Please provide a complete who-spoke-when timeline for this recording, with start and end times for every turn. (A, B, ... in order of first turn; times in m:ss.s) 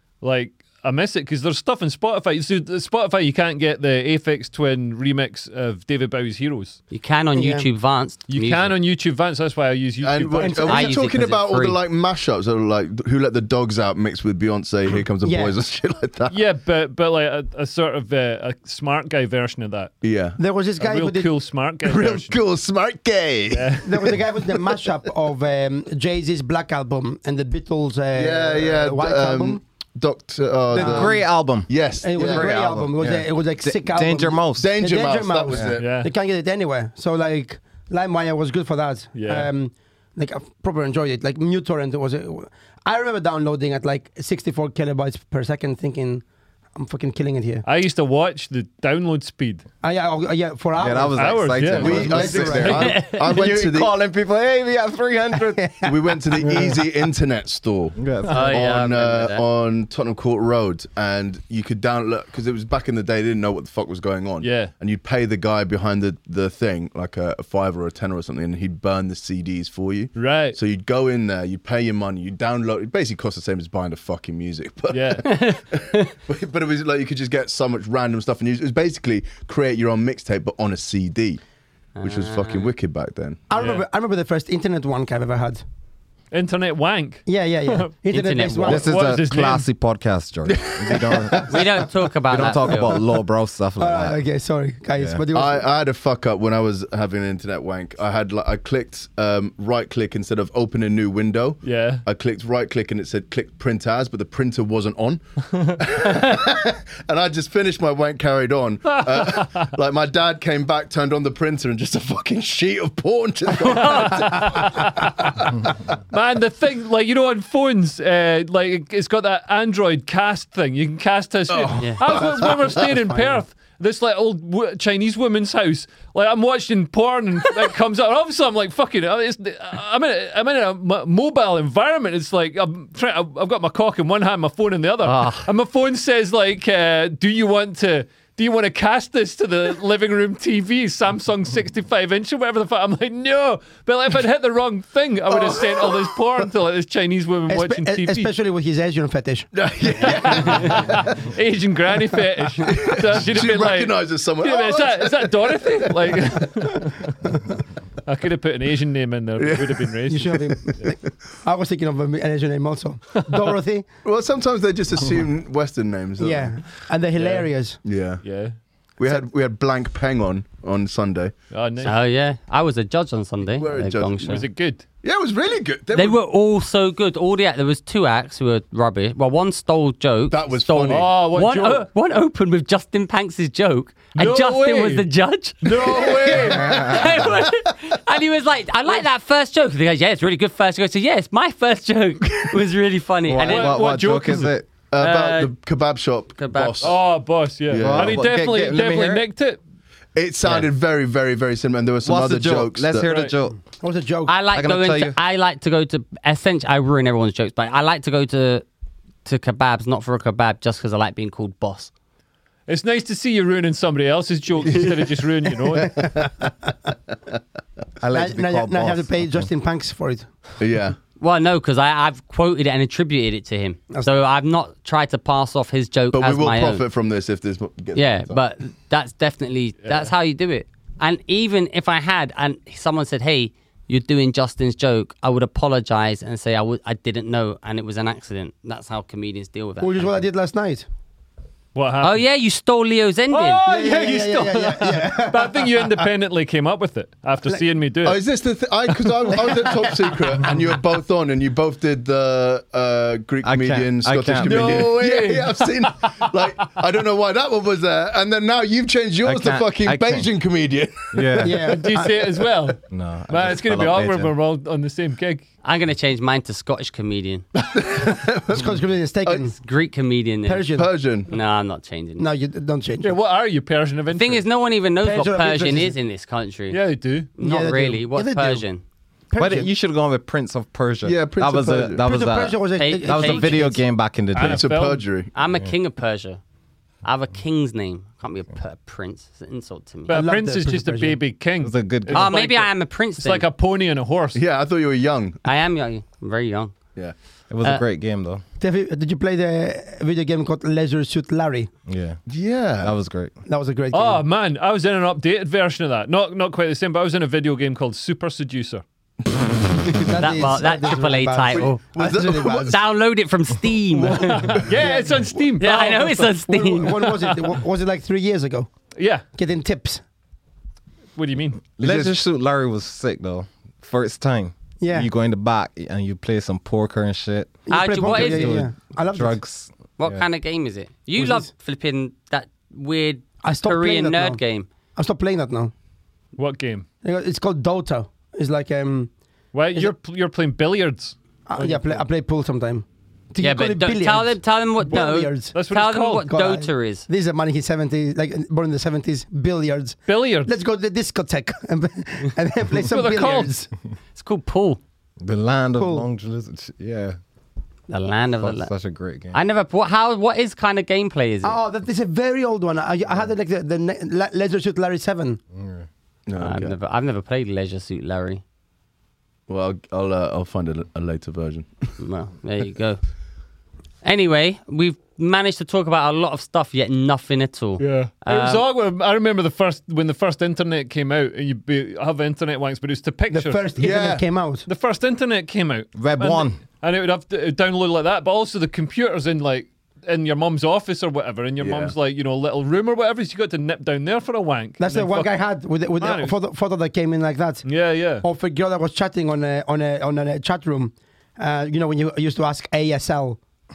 0:00.2-0:06.8 A
0:06.9-0:08.7 B
0:07.3-0:07.7 C
0:08.3-0:10.7 A
0:10.0-0:16.4 D
0:10.4-0:11.0 C
0:10.6-0:11.8 B
0:15.2-0:15.5 C
0:16.3-0:19.9 A
0:20.0-0:20.4 D
0:20.4-0:21.3 C
0:20.8-0:22.4 A
0:21.8-0:24.1 D
0:23.5-0:23.9 A
0:23.8-0:29.6 C
0:28.1-0:32.6 D
0:30.7-0:34.7 E
0:30.8-0:31.2 C
0:32.0-0:46.2 C
0:34.5-0:35.9 D
0:35.8-0:36.1 A
0:39.1-0:39.5 A
0:46.7-0:47.6 C
0:47.6-0:49.6 A
0:49.8-0:53.0 C
0:50.8-0:55.7 E
0:51.2-0:53.0 A
0:51.7-0:53.9 D
0:55.6-0:56.0 C
0:55.8-1:21.4 D
0:56.4-0:56.7 E
0:58.0-0:58.5 E
0:58.3-0:59.4 B
1:04.4-1:04.7 A
1:10.2-1:10.6 A
1:14.9-1:15.3 A
1:15.2-1:16.1 B
1:22.0-1:22.7 B
1:22.0-1:23.4 D
1:23.5-1:25.6 C
1:23.5-1:23.8 A
1:26.3-1:27.9 A
1:27.2-1:29.0 C
1:28.1-1:28.9 B
1:28.6-1:34.2 E
1:28.7-1:29.7 A
1:30.5-1:31.5 D
1:31.5-1:33.0 B
1:33.8-1:35.7 C
1:35.0-1:35.2 E
1:35.3-1:54.7 D
1:41.6-1:42.0 A
1:49.1-1:49.6 A
1:53.6-1:54.2 B
1:53.7-1:55.5 A
1:56.1-2:28.3 A
2:01.5-2:02.8 D
2:02.0-2:03.4 C
2:15.0-2:15.5 B
2:27.5-2:29.5 C
2:29.5-2:31.2 D
2:30.0-2:37.3 A
2:32.6-2:36.2 D
2:38.0-2:40.4 A
2:39.4-2:39.9 D
2:40.1-2:43.9 C
2:40.8-2:41.1 D
2:44.0-2:46.5 D
2:46.2-2:47.8 C
2:47.2-2:47.5 A
2:47.8-2:48.2 D
2:48.2-2:48.6 A
2:49.0-2:51.3 D
2:51.5-2:52.0 A
2:51.8-2:54.4 B
2:53.6-2:54.4 D
2:54.3-2:54.8 A
2:55.0-2:56.2 D
2:55.9-3:13.9 B
3:00.3-3:01.1 D
3:00.9-3:01.8 A
3:04.1-3:05.1 A
3:05.6-3:06.9 A
3:05.8-3:07.5 D
3:12.3-3:12.6 D
3:13.3-3:14.7 E
3:13.4-3:14.5 A
3:14.9-3:17.0 D
3:15.0-3:15.5 B
3:16.4-3:17.0 B
3:16.8-3:19.6 A
3:17.7-3:18.2 D
3:17.8-3:19.2 E
3:20.1-3:23.1 D
3:22.0-3:23.6 E
3:23.1-3:23.3 A
3:23.8-3:24.3 C
3:24.3-3:28.6 B
3:24.5-3:25.2 E
3:29.2-3:31.9 B
3:32.7-3:36.2 A
3:35.7-3:36.5 C
3:38.0-3:39.5 E
3:38.1-3:40.3 C
3:40.6-3:41.0 D
3:41.2-3:46.8 B
3:43.9-3:44.2 C
3:46.1-3:48.4 D
3:47.9-4:00.2 B
3:49.8-3:50.1 A
3:59.8-4:00.8 C
4:01.7-4:02.2 A
4:02.0-4:03.6 B
4:03.3-4:08.2 A
4:03.6-4:06.1 C
4:08.0-4:21.4 D
4:09.2-4:10.5 C
4:13.4-4:14.9 E
4:14.4-4:16.1 A
4:19.2-4:20.3 E
4:21.1-4:21.7 E
4:21.4-4:22.2 C
4:21.5-4:25.4 A
4:22.9-4:24.3 E
4:25.6-4:27.4 B
4:27.6-4:29.4 D
4:28.5-4:29.5 C
4:29.5-4:30.8 B
4:30.4-4:30.9 C
4:30.7-4:31.3 D
4:31.3-4:32.2 B
4:32.2-4:33.1 C
4:33.0-4:34.4 A
4:34.1-4:36.8 B
4:35.0-4:35.9 C
4:36.7-4:37.3 A
4:37.4-4:38.8 B
4:37.4-4:38.6 C
4:39.3-4:39.7 C
4:39.4-4:44.7 E
4:41.0-4:42.0 D
4:42.0-4:43.8 C
4:42.8-4:43.6 B
4:44.3-4:45.0 A
4:44.4-4:45.3 D
4:45.3-4:46.4 B
4:47.0-4:50.2 B
4:50.1-4:54.4 A
4:50.1-4:51.2 C
4:51.6-4:52.3 E
4:52.1-4:53.5 B
4:54.3-4:55.4 D
4:55.4-4:56.8 B
4:57.5-4:58.4 E
4:58.6-5:01.7 C
5:01.9-5:02.2 E
5:02.3-5:02.9 D
5:02.8-5:03.3 E
5:03.4-5:04.2 C
5:03.9-5:08.8 A
5:09.9-5:12.8 C
5:10.2-5:11.8 B
5:11.5-5:12.8 D
5:12.6-5:14.6 B
5:13.9-5:14.8 D
5:14.2-5:16.3 A
5:14.7-5:15.3 C
5:15.6-5:17.1 B
5:16.5-5:18.7 C
5:17.0-5:17.5 A
5:19.0-5:19.2 A
5:19.3-5:20.0 C
5:21.2-5:21.6 A
5:21.8-5:30.2 E
5:21.8-5:22.1 D
5:24.8-5:25.1 C
5:27.7-5:29.3 C
5:27.7-5:28.6 B
5:30.0-5:34.7 B
5:31.2-5:31.5 C
5:33.4-5:34.4 C
5:35.0-5:35.7 C
5:36.4-5:36.8 A
5:37.0-5:39.1 C
5:39.5-5:42.0 A
5:41.5-5:45.6 C
5:43.4-5:47.1 B
5:45.5-5:46.3 A
5:46.2-5:53.7 C
5:50.1-5:50.5 A
5:52.9-5:53.5 A
5:54.2-5:54.8 B
5:55.2-5:57.2 E
5:55.8-5:56.0 C
5:57.9-5:58.7 B
5:58.4-5:59.3 E
5:59.3-6:01.6 B
6:01.4-6:05.4 C
6:05.6-6:05.8 E
6:06.3-6:06.7 D
6:06.4-6:08.4 B
6:09.5-6:11.7 D
6:12.0-6:13.0 B
6:14.0-6:18.7 B
6:17.8-6:24.0 A
6:23.3-6:24.7 C
6:23.8-6:24.2 D
6:24.7-6:35.3 A
6:25.9-6:26.6 E
6:31.6-6:31.9 D
6:34.8-6:37.6 C
6:36.0-6:36.3 A
6:37.6-6:38.2 A
6:38.2-6:43.4 C